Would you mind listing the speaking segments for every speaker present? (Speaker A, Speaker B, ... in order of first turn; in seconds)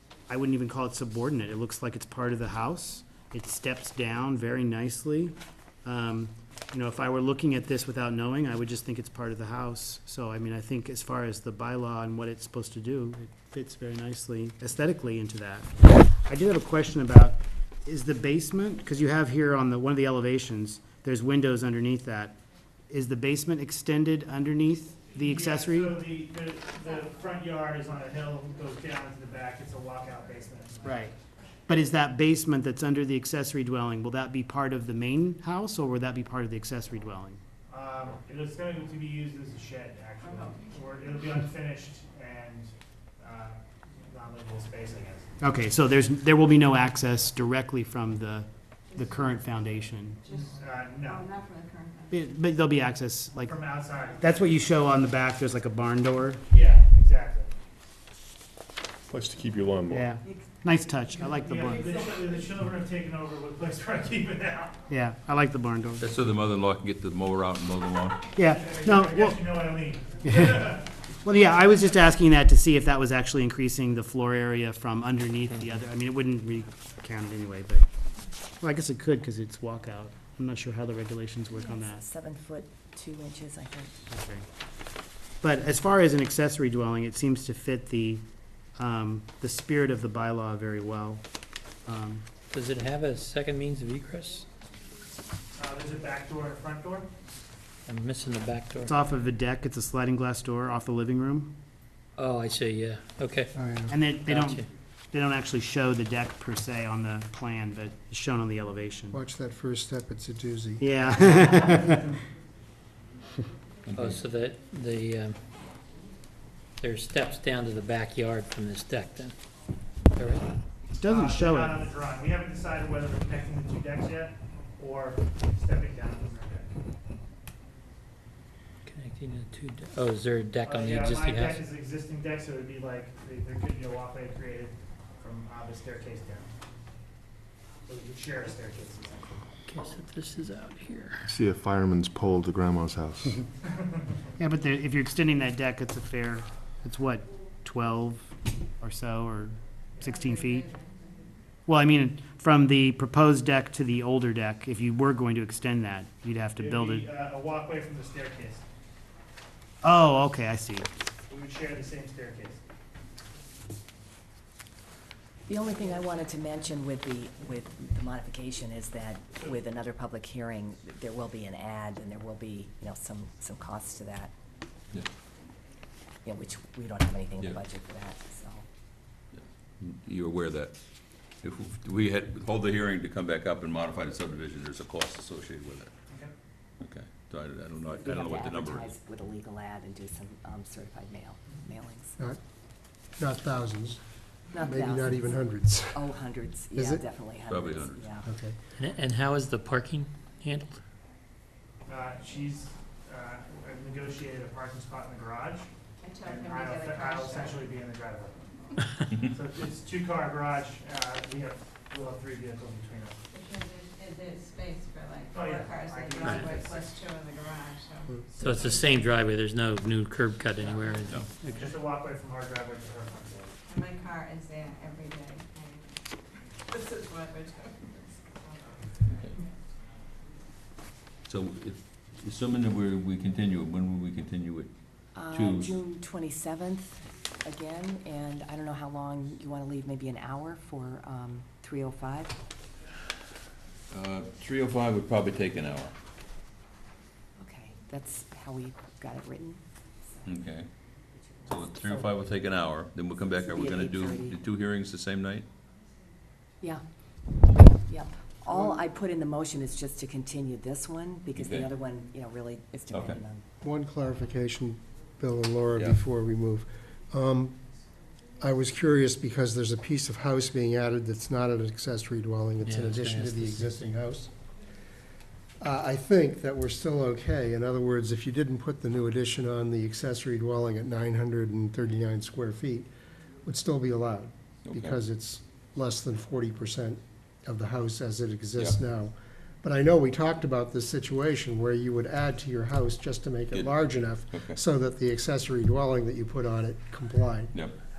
Speaker A: 0.3-22.4, 22.9-26.0, 30.8-31.1, 31.7-37.4, 45.4-50.2, 52.1-53.6, 54.2-56.4, 59.9-62.0, 64.9-66.1, 68.4-69.6, 70.2-70.7, 71.2-77.8, 78.6-82.0, 84.1-84.5, 85.4-88.3, 88.8-91.2, 91.8-92.2, 98.8-101.5, 103.9-109.2, 110.8-112.1, 121.0-121.9, 144.4-150.7, 151.7-157.1, 159.8-160.9
Speaker B: 25.2-31.1, 37.7-45.3, 50.3-51.3, 53.4-54.5, 56.5-57.5, 61.1-64.8, 68.5-70.8, 95.6-97.1, 121.0-126.7, 130.7-136.5, 137.9-139.4, 143.7-143.9, 156.6-158.6, 161.3-162.6, 201.9-205.7, 206.3-208.5, 209.2-213.2, 215.3-217.1, 221.5-223.5
Speaker C: 50.2-52.2, 150.1-151.0, 206.0-207.8, 213.3-218.8, 223.7-225.8, 226.7-228.8
Speaker D: 59.1-60.1, 141.3-143.4
Speaker E: 66.0-68.2, 113.9-114.2, 179.3-180.7, 181.4-185.9, 186.8-188.9, 197.5-198.0, 229.1-229.4, 231.3-234.7, 235.3-235.7, 243.9-245.9, 250.3-250.7, 251.5-255.5, 261.4-261.7, 262.9-263.2, 284.6-285.0, 293.5-293.8, 294.3-294.6, 297.5-297.8
Speaker F: 81.5-83.9, 165.5-174.3, 176.2-178.7, 187.9-192.2, 194.5-198.3, 235.1-242.4, 247.4-250.4, 251.1-252.1, 253.2-254.4, 257.6-263.4
Speaker G: 92.5-94.5, 97.9-99.0, 102.2-103.5, 104.3-104.7, 113.9-115.4, 116.8-119.3, 120.2-120.5, 128.9-131.6, 139.7-141.3, 198.8-200.8, 216.2-216.5, 218.4-221.8, 272.6-274.1
Speaker H: 103.5-104.0, 109.1-111.0, 193.2-194.0, 194.5-196.1, 196.8-197.1, 198.2-198.6, 258.5-258.8, 263.6-267.6, 268.4-274.3, 275.6-282.9, 283.4-297.6